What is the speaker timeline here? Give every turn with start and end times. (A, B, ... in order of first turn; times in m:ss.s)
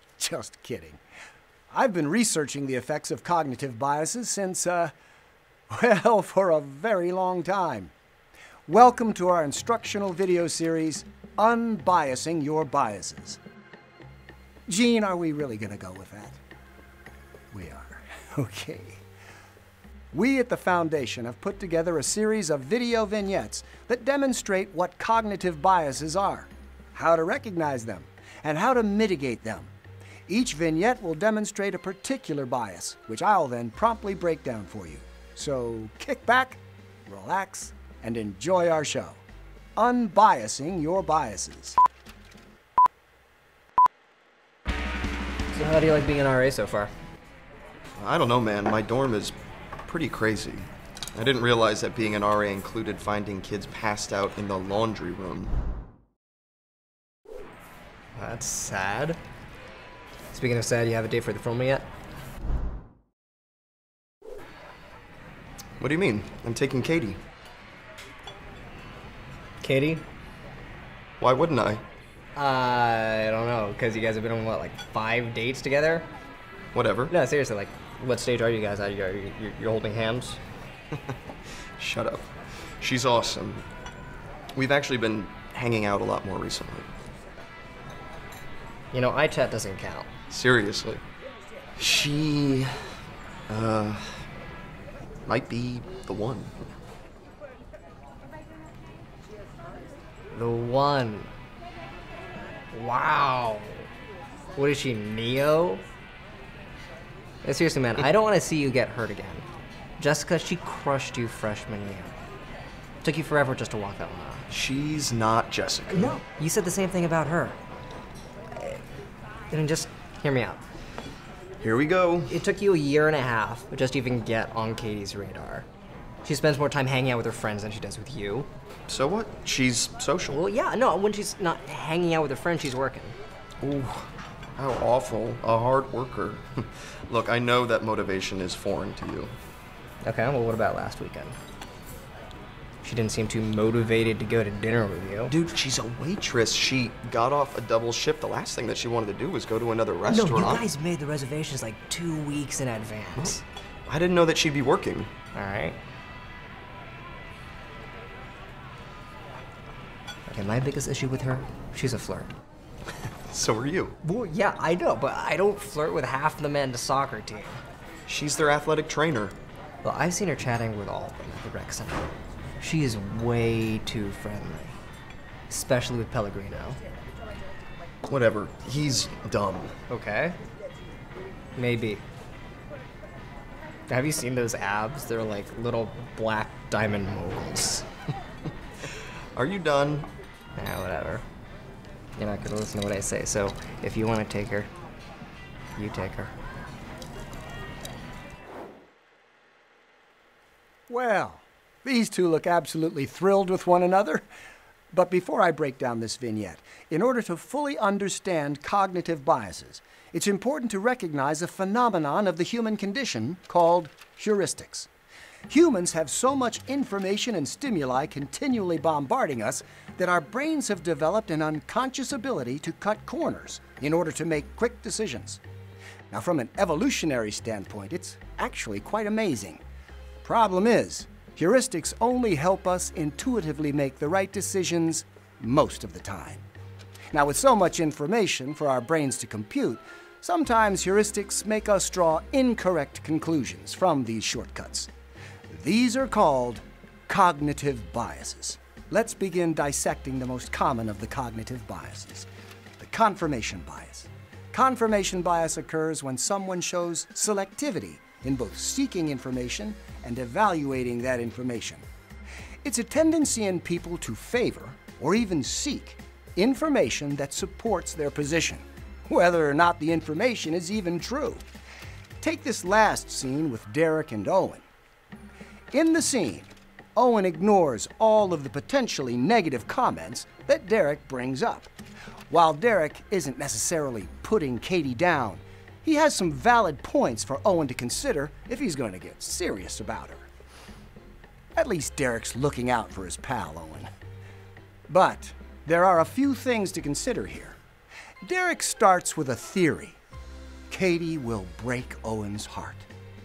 0:00.2-0:01.0 A
0:01.7-0:04.9 A
0:05.7-0:07.9 A
0:08.7-0:13.4 A
0:14.7-0:16.4 A
0:17.5-0:19.0 A
0:20.1-0:29.7 A
0:30.3-0:39.2 A
0:39.8-0:41.8 A
0:45.5-0:46.9 B
0:48.0-0:55.6 C
0:58.2-0:59.2 B
1:00.3-1:01.9 B
1:05.8-1:07.2 C
1:09.6-1:10.1 B
1:11.2-1:11.8 C
1:12.4-1:16.1 B
1:16.7-1:17.1 C
1:17.1-1:20.4 B
1:21.8-1:22.3 C
1:22.8-1:23.7 C
1:24.6-1:26.9 C
1:28.9-1:30.1 B
1:30.3-1:31.0 C
1:31.8-1:32.9 C
1:33.5-1:34.3 C
1:35.2-1:36.7 C
1:40.3-1:41.3 B
1:42.7-1:43.9 B
1:44.6-1:45.8 B
1:47.4-1:49.5 B
1:50.0-1:52.2 B
1:53.0-1:54.5 B
1:54.5-1:56.2 C
1:55.9-1:57.6 B
1:59.5-2:00.6 B
2:01.6-2:02.4 C
2:02.3-2:05.7 B
2:06.2-2:08.5 B
2:08.9-2:10.4 C
2:10.3-2:13.2 B
2:13.6-2:19.3 C
2:20.0-2:21.4 B
2:22.8-2:25.3 B
2:25.3-2:30.7 C
2:30.1-2:33.4 B
2:33.2-2:35.1 C
2:35.3-2:35.8 B
2:40.3-2:42.3 B
2:43.3-2:44.0 C
2:44.0-2:47.6 B
2:48.1-2:49.4 C
2:49.8-2:54.8 B
2:55.5-2:56.8 B
2:58.1-2:59.8 C
2:59.9-3:00.4 B
3:01.6-3:02.0 B
3:03.9-3:07.9 B
3:09.4-3:10.1 C
3:10.6-3:11.2 B
3:12.2-3:14.7 B
3:15.8-3:16.3 B
3:20.9-3:24.3 A
3:24.9-3:34.9 A
3:35.5-3:45.4 A
3:46.1-3:49.6 A
3:50.2-3:56.4 A
3:57.1-4:04.9 A
4:05.5-4:12.3 A
4:12.8-4:21.8 A
4:22.6-4:31.4 A
4:32.2-4:34.6 A
4:35.7-4:41.7 A
4:42.3-4:50.3 A
4:51.6-4:53.9 A
4:54.9-4:57.6 A
4:58.2-5:00.0 A
5:00.7-5:02.9 A